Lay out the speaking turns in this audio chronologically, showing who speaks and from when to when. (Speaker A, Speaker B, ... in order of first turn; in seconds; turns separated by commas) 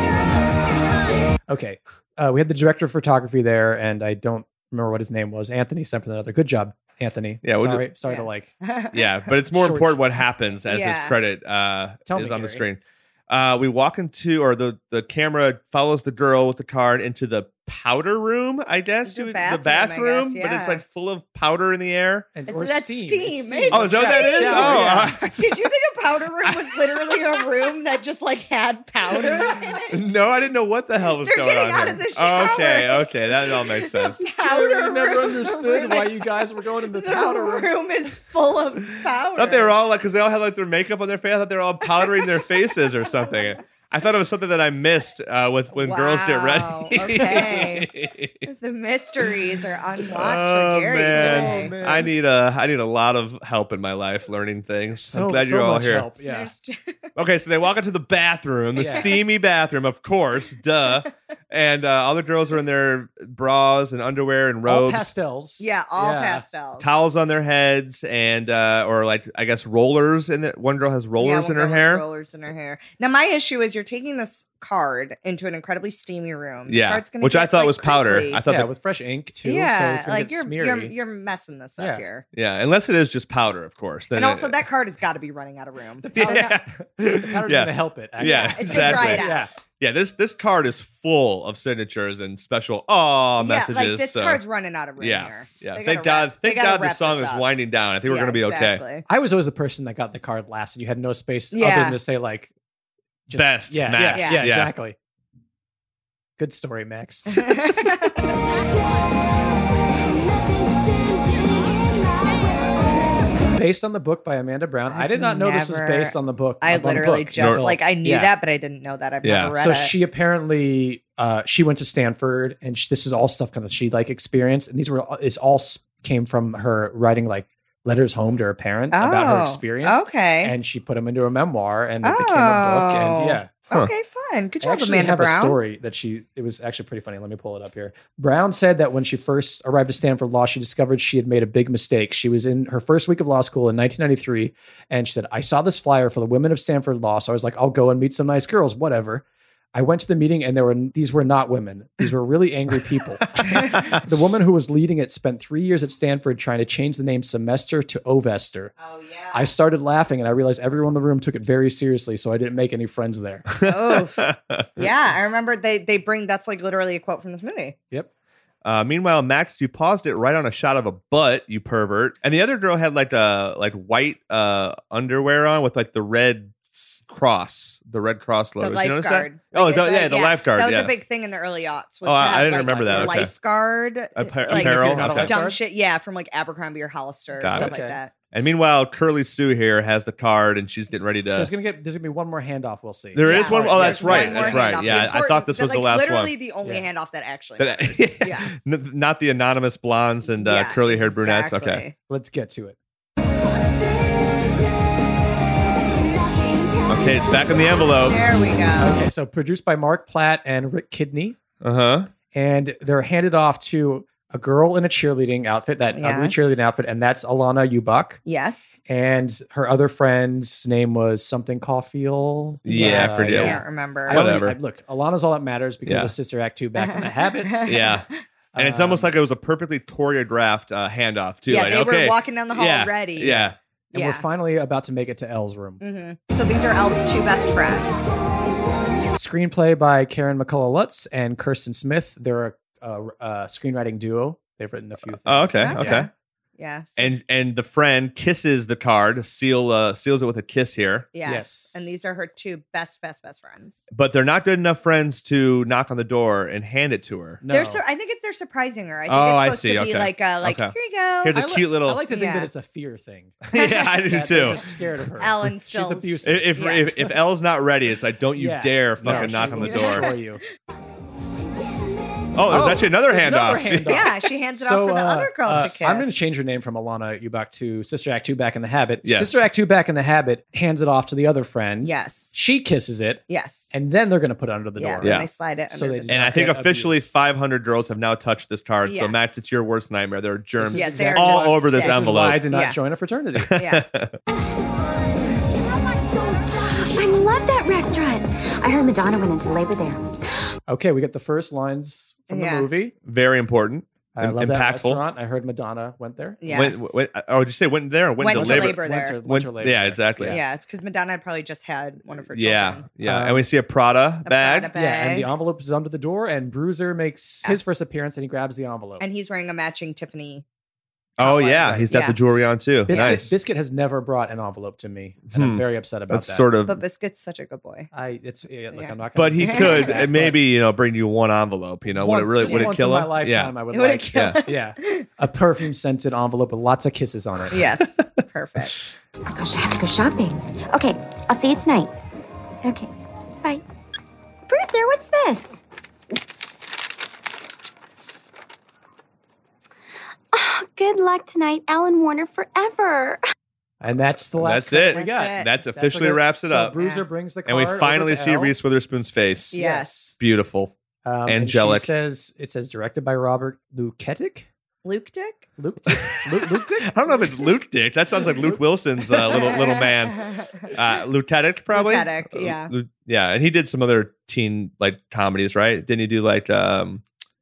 Speaker A: 1.5-8.6, Speaker B: 7.4-7.9, Speaker C: 8.1-9.3, Speaker B: 8.9-22.3, Speaker A: 9.5-9.9, Speaker C: 10.7-11.2, Speaker A: 12.1-12.7, Speaker C: 19.1-20.8, Speaker A: 22.4-25.2, Speaker C: 22.5-30.1, Speaker B: 23.7-25.3, Speaker B: 29.9-34.2, Speaker C: 31.2-39.8, Speaker A: 34.4-37.7, Speaker B: 39.4-48.5, Speaker C: 45.7-47.9, Speaker C: 48.4-51.8, Speaker B: 50.0-56.1, Speaker A: 51.1-52.1, Speaker A: 55.1-56.5, Speaker C: 56.3-57.1, Speaker B: 57.1-65.1, Speaker A: 58.8-59.1, Speaker A: 64.7-66.4, Speaker C: 65.6-66.9, Speaker B: 66.8-72.0, Speaker C: 71.2-78.4, Speaker B: 76.7-78.7, Speaker A: 78.5-80.9, Speaker C: 79.5-82.2, Speaker A: 81.8-82.0, Speaker B: 82.3-84.6, Speaker C: 84.1-86.6, Speaker A: 86.0-89.5, Speaker B: 86.1-94.4, Speaker C: 88.2-89.4, Speaker C: 93.4-97.5, Speaker B: 95.0-98.8, Speaker C: 98.0-99.1, Speaker A: 99.1-102.5, Speaker C: 101.5-102.0, Speaker A: 103.3-105.0, Speaker B: 103.3-104.7, Speaker C: 104.1-104.5, Speaker A: 106.4-107.7, Speaker C: 107.3-108.3, Speaker A: 113.5-118.3, Speaker C: 114.9-119.9, Speaker B: 117.4-117.7, Speaker B: 119.2-119.5, Speaker A: 119.5-133.5, Speaker C: 128.9-130.5, Speaker C: 132.0-135.6, Speaker A: 134.6-158.7, Speaker B: 153.7-154.0, Speaker C: 158.8-159.5, Speaker A: 159.3-163.6, Speaker C: 163.6-167.8, Speaker B: 163.6-164.8, Speaker B: 168.6-180.9, Speaker C: 178.6-188.1, Speaker B: 182.1-183.3, Speaker A: 182.2-183.3, Speaker B: 184.2-185.4, Speaker A: 184.5-185.6, Speaker B: 187.4-187.7, Speaker A: 187.5-188.0, Speaker B: 188.3-191.5, Speaker A: 191.4-195.1, Speaker B: 193.2-196.3, Speaker C: 193.2-198.5, Speaker B: 197.6-201.8, Speaker C: 200.4-201.9, Speaker A: 202.1-202.8, Speaker B: 206.9-208.2, Speaker C: 207.9-209.0, Speaker A: 208.8-211.4, Speaker B: 211.6-212.1, Speaker A: 212.3-218.2, Speaker C: 215.9-216.6, Speaker C: 218.3-218.8, Speaker A: 218.9-227.8, Speaker B: 222.7-223.6, Speaker C: 222.8-224.2, Speaker B: 224.1-224.6, Speaker B: 225.8-226.1, Speaker C: 226.8-228.2, Speaker B: 227.7-233.6, Speaker A: 228.5-229.2, Speaker C: 231.5-234.2, Speaker A: 233.3-235.8, Speaker C: 235.8-238.1, Speaker A: 239.1-246.1, Speaker B: 245.2-246.1, Speaker C: 245.6-247.1, Speaker B: 247.0-251.1, Speaker C: 251.1-253.8, Speaker A: 251.2-251.9, Speaker B: 253.9-257.4, Speaker A: 257.4-257.8, Speaker C: 257.5-262.5, Speaker B: 259.1-262.0, Speaker A: 261.8-267.2, Speaker B: 263.5-264.6, Speaker C: 263.5-264.4, Speaker C: 265.2-266.9, Speaker B: 266.2-270.1, Speaker A: 268.4-270.4, Speaker C: 269.0-270.2, Speaker B: 272.4-274.1, Speaker A: 272.5-287.1, Speaker C: 273.9-276.1, Speaker B: 279.0-279.4, Speaker C: 281.8-282.4, Speaker C: 283.3-283.7, Speaker C: 284.8-286.1, Speaker B: 285.0-285.3, Speaker B: 286.1-292.5, Speaker C: 288.9-289.1, Speaker A: 290.6-293.6, Speaker C: 290.7-292.8, Speaker B: 293.4-294.2, Speaker C: 293.6-293.9, Speaker D: 296.0-300.2, Speaker A: 300.7-302.9, Speaker C: 302.3-302.7, Speaker B: 303.1-305.0, Speaker A: 304.1-306.4, Speaker C: 306.4-307.0, Speaker B: 306.5-310.4, Speaker C: 308.2-309.2, Speaker A: 308.3-310.4, Speaker C: 310.3-312.9, Speaker B: 312.3-314.7, Speaker A: 313.0-313.4, Speaker C: 314.2-315.3, Speaker A: 314.8-319.0, Speaker C: 319.0-320.4, Speaker B: 321.2-323.4, Speaker C: 321.2-322.2, Speaker A: 321.6-321.9, Speaker A: 322.9-326.5, Speaker C: 322.9-323.2, Speaker B: 325.3-326.8, Speaker C: 326.7-327.9, Speaker A: 327.9-330.4, Speaker C: 328.7-329.9, Speaker B: 329.2-333.5, Speaker A: 331.9-337.7, Speaker C: 332.4-332.7, Speaker C: 333.7-335.1, Speaker B: 334.1-334.4, Speaker C: 337.5-338.9, Speaker D: 339.3-341.9, Speaker D: 342.6-342.9, Speaker D: 344.5-345.6, Speaker D: 350.3-353.2, Speaker A: 353.8-358.6, Speaker B: 354.4-356.8, Speaker C: 354.9-355.5, Speaker C: 356.8-357.1, Speaker B: 357.5-359.6, Speaker C: 359.5-360.0, Speaker A: 359.5-360.2, Speaker B: 360.2-360.7, Speaker A: 361.0-364.5, Speaker B: 361.3-361.9, Speaker C: 364.8-365.5, Speaker A: 365.6-367.4, Speaker B: 365.9-377.0, Speaker A: 368.3-368.6, Speaker C: 369.3-370.7, Speaker C: 371.7-372.7